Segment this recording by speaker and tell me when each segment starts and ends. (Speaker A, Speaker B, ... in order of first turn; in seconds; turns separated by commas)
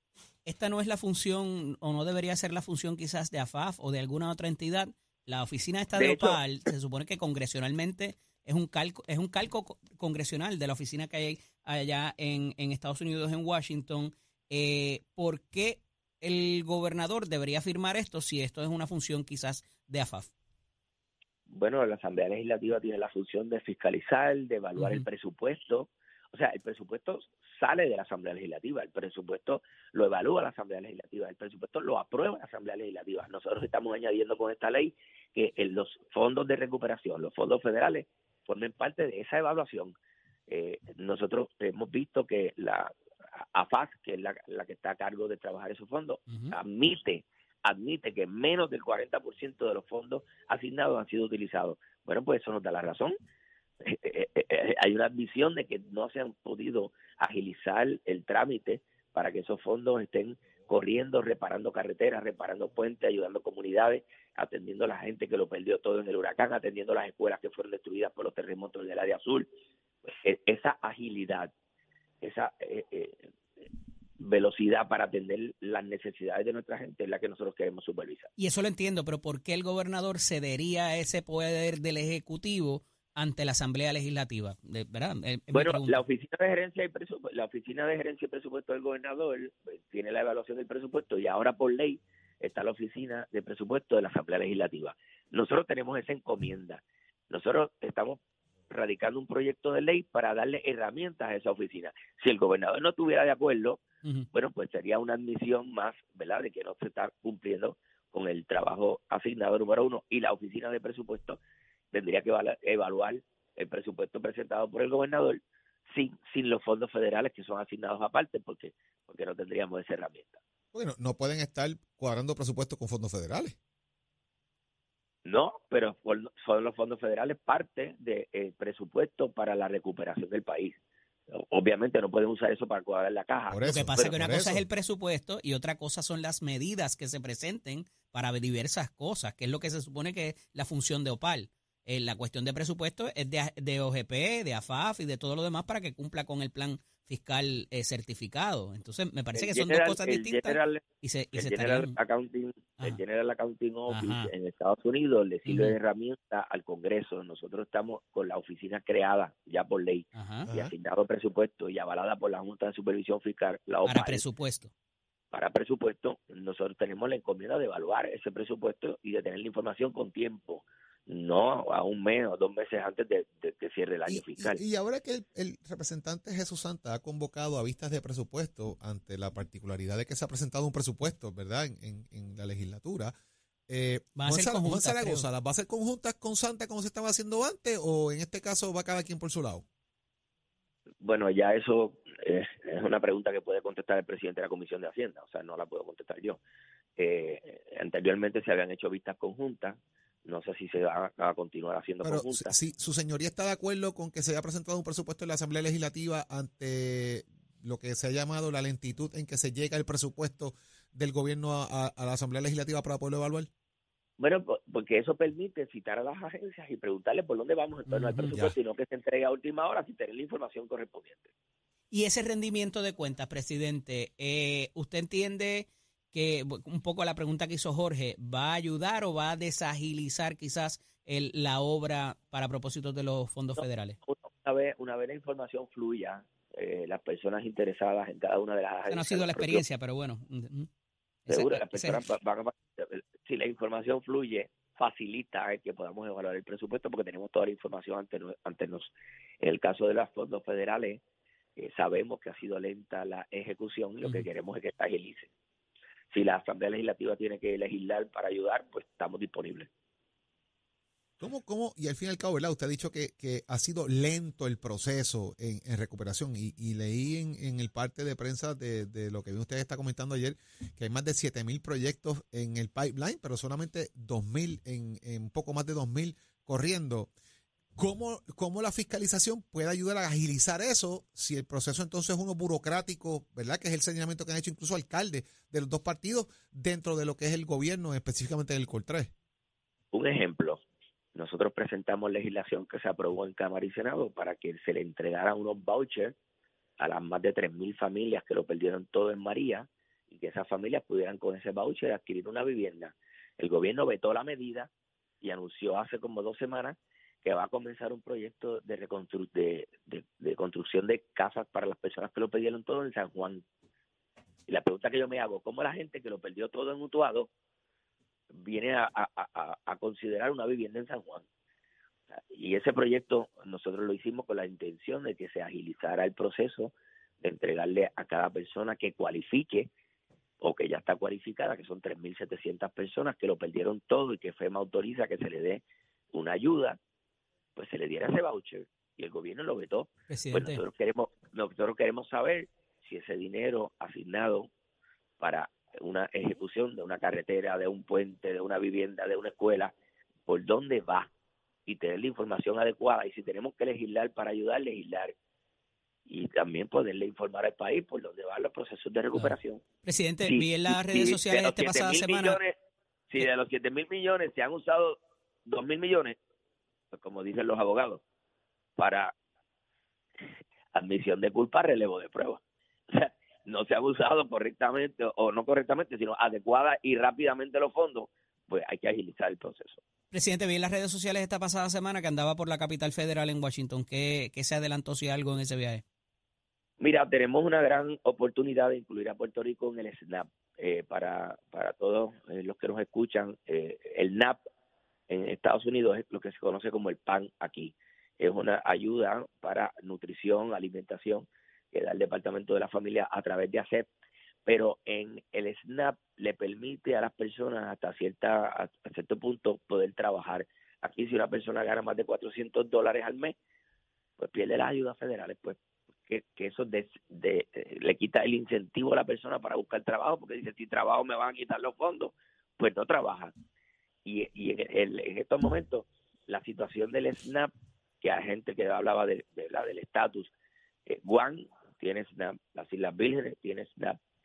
Speaker A: 0.5-20.3, Speaker B: 6.0-6.4, Speaker B: 21.5-39.9, Speaker A: 24.8-25.1, Speaker B: 40.5-53.1, Speaker A: 46.3-46.5, Speaker B: 53.8-69.5, Speaker B: 70.1-71.5, Speaker B: 72.2-73.3, Speaker B: 74.2-78.3, Speaker A: 78.4-86.0, Speaker B: 85.5-98.2, Speaker B: 98.7-111.4, Speaker B: 111.9-120.4, Speaker C: 120.7-123.5, Speaker B: 125.2-130.8, Speaker B: 131.3-134.2, Speaker C: 133.5-134.7, Speaker A: 133.7-151.9, Speaker B: 149.3-164.2, Speaker A: 153.9-154.3, Speaker A: 155.4-155.8, Speaker A: 160.1-160.5, Speaker A: 163.8-164.7, Speaker B: 165.3-174.6, Speaker C: 174.1-183.1, Speaker C: 183.7-189.6, Speaker A: 184.2-185.3, Speaker B: 191.0-196.4, Speaker B: 197.0-202.5, Speaker C: 202.0-213.5, Speaker B: 214.2-221.3, Speaker A: 217.9-218.5, Speaker A: 221.9-234.0, Speaker B: 233.6-239.6, Speaker A: 238.9-240.7, Speaker A: 241.2-242.0, Speaker B: 241.3-251.0, Speaker B: 251.6-255.3, Speaker B: 256.1-259.7, Speaker C: 261.2-277.1, Speaker C: 277.8-289.1, Speaker B: 289.9-290.6, Speaker B: 291.1-296.1, Speaker B: 296.8-304.7, Speaker B: 305.2-313.4, Speaker B: 314.5-317.3, Speaker B: 318.3-321.2, Speaker B: 322.2-329.7, Speaker B: 330.4-335.6, Speaker B: 336.1-336.8, Speaker B: 337.6-344.5, Speaker A: 340.1-340.6, Speaker B: 345.2-349.7, Speaker B: 350.3-351.1, Speaker B: 351.6-355.1, Speaker B: 356.1-359.6, Speaker A: 359.1-362.4, Speaker B: 360.2-362.5, Speaker B: 363.1-366.1, Speaker B: 366.9-368.0, Speaker B: 368.8-369.1, Speaker B: 370.7-372.4, Speaker B: 372.9-379.8, Speaker A: 380.1-385.8, Speaker B: 386.8-394.4, Speaker B: 395.1-403.9, Speaker B: 404.4-413.3, Speaker B: 414.2-423.3, Speaker B: 424.0-427.5, Speaker B: 428.0-430.3, Speaker B: 430.9-434.0